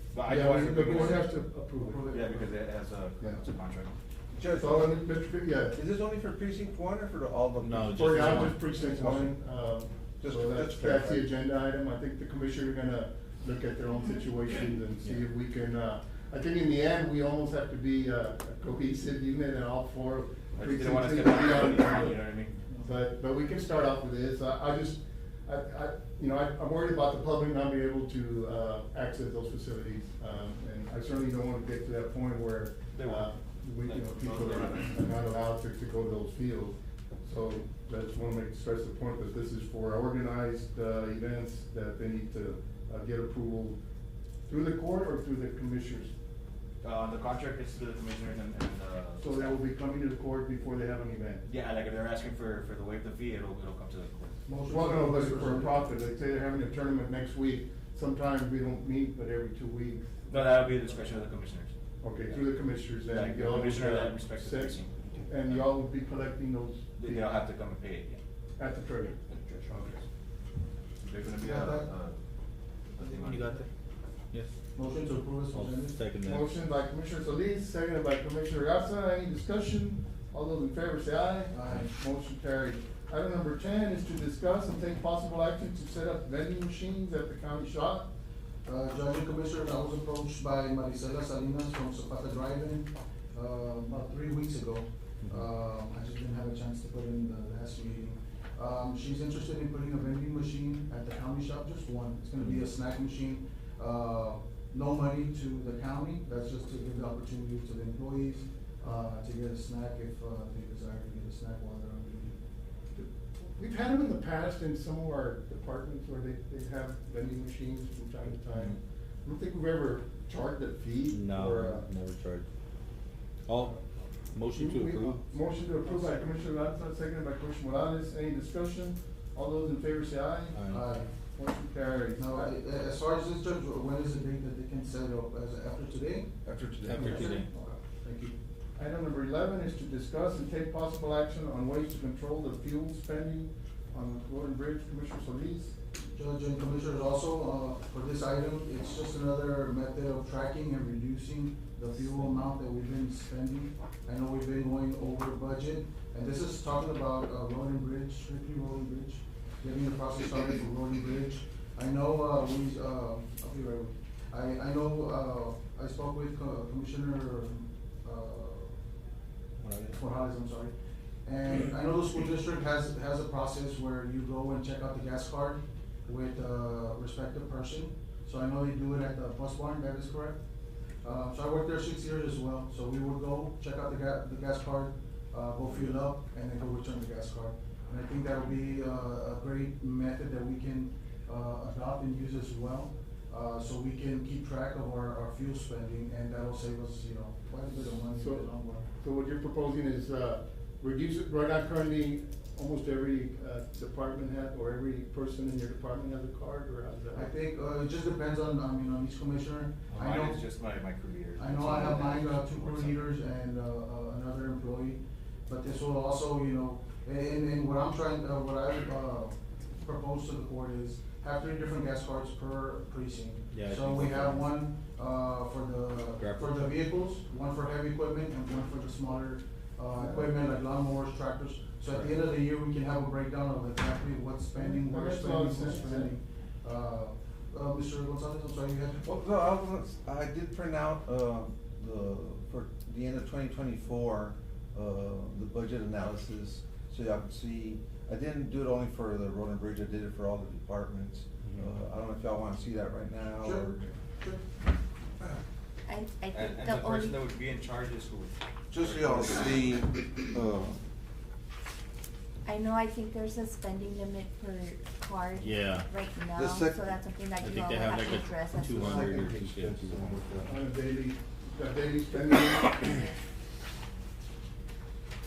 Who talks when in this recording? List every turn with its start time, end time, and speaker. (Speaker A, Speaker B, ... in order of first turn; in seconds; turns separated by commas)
Speaker A: 0.1-1.2, Speaker B: 0.2-2.1, Speaker C: 0.8-2.5, Speaker A: 2.1-3.9, Speaker D: 4.3-5.0, Speaker B: 4.5-5.8, Speaker D: 5.7-9.4, Speaker E: 7.6-8.6, Speaker B: 7.9-22.2, Speaker D: 10.2-11.3, Speaker A: 20.6-22.5, Speaker B: 22.8-43.8, Speaker A: 32.9-33.3, Speaker A: 33.8-35.2, Speaker B: 44.5-46.1, Speaker A: 46.8-49.5, Speaker B: 49.2-51.4, Speaker A: 51.5-54.3, Speaker C: 54.5-55.8, Speaker B: 54.7-60.3, Speaker A: 60.3-61.7, Speaker B: 62.0-67.3, Speaker A: 63.1-65.7, Speaker A: 67.0-68.2, Speaker B: 68.6-70.0, Speaker A: 71.0-72.2, Speaker C: 71.4-71.9, Speaker A: 72.9-73.6, Speaker E: 73.2-73.7, Speaker C: 74.7-76.0, Speaker E: 75.5-76.5, Speaker B: 76.2-88.1, Speaker C: 81.5-81.9, Speaker C: 88.6-112.4, Speaker E: 102.4-102.6, Speaker B: 112.9-121.9, Speaker E: 118.5-118.8, Speaker E: 121.1-122.5, Speaker E: 123.5-123.8, Speaker E: 124.3-125.2, Speaker B: 124.5-130.6, Speaker E: 130.5-130.9, Speaker C: 130.7-131.1, Speaker B: 131.3-132.5, Speaker C: 132.2-136.3, Speaker D: 136.4-137.4, Speaker E: 136.8-137.5, Speaker C: 136.9-138.3, Speaker B: 137.0-137.8, Speaker B: 138.8-145.7, Speaker C: 146.1-168.7, Speaker E: 169.6-169.9, Speaker C: 169.8-170.7, Speaker C: 171.2-180.4, Speaker C: 181.0-198.9, Speaker B: 197.8-198.5, Speaker B: 199.0-207.3, Speaker C: 207.1-210.4, Speaker A: 209.9-213.1, Speaker C: 211.3-239.0, Speaker E: 223.5-224.5, Speaker E: 226.2-226.8, Speaker B: 230.0-230.3, Speaker B: 234.6-236.1, Speaker D: 239.0-253.9, Speaker C: 253.4-254.4, Speaker F: 255.8-257.2, Speaker A: 256.3-259.7, Speaker D: 258.7-260.8, Speaker F: 262.4-269.3, Speaker E: 265.4-265.9, Speaker D: 266.4-266.9, Speaker E: 267.4-270.1, Speaker D: 268.7-270.6, Speaker B: 270.4-273.1